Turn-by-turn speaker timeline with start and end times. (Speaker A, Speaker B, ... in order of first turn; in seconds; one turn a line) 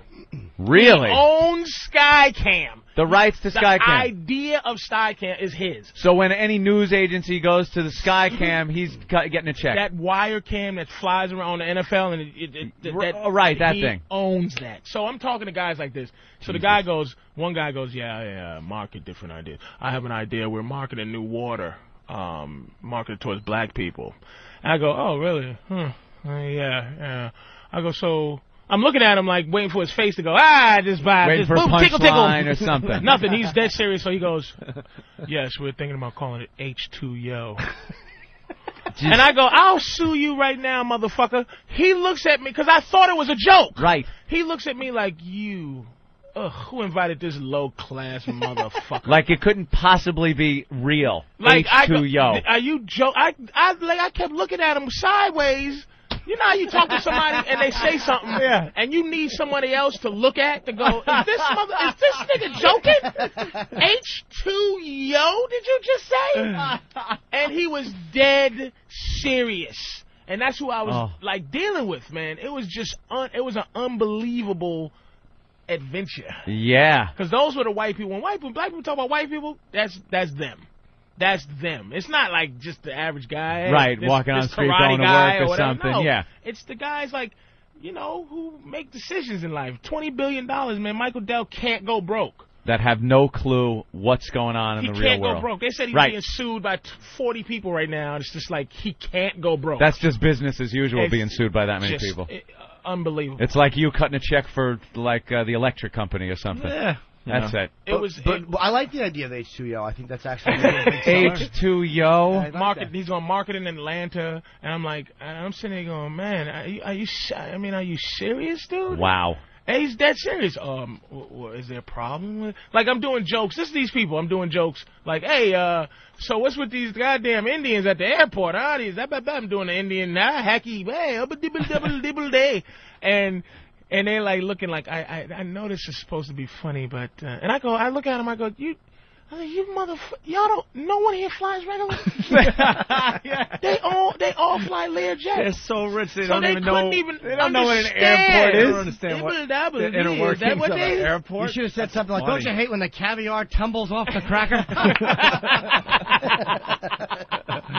Speaker A: 0.6-1.2
Speaker B: 0.7-5.9
Speaker A: 3.0-4.1
Speaker A: 6.0-9.8
Speaker B: 9.7-34.6
Speaker A: 12.8-14.0
Speaker A: 16.4-16.8
Speaker A: 31.2-33.1
Speaker B: 35.2-37.6
Speaker A: 38.9-39.3
Speaker B: 39.0-49.2
Speaker A: 43.8-44.1
Speaker A: 49.0-52.4
Speaker B: 51.4-66.7
Speaker A: 58.3-58.7
Speaker C: 63.2-63.7
Speaker B: 67.3-74.9
Speaker A: 70.8-71.1
Speaker B: 75.7-76.4
Speaker A: 76.5-77.1
Speaker B: 77.2-92.5
Speaker A: 83.7-86.3
Speaker A: 92.6-96.2
Speaker B: 94.8-100.0
Speaker A: 99.8-102.3
Speaker B: 100.9-103.5
Speaker A: 103.4-107.7
Speaker D: 106.5-107.6
Speaker B: 107.8-108.5
Speaker C: 107.9-111.5
Speaker B: 110.5-111.5
Speaker A: 111.0-112.5
Speaker C: 112.3-112.9
Speaker B: 112.5-119.1
Speaker A: 118.9-119.4
Speaker B: 119.7-138.8
Speaker B: 139.3-143.0
Speaker A: 142.2-143.6
Speaker B: 143.6-145.5
Speaker D: 145.3-152.5
Speaker B: 146.2-151.1
Speaker A: 147.2-148.9
Speaker C: 151.4-157.1
Speaker D: 154.8-155.2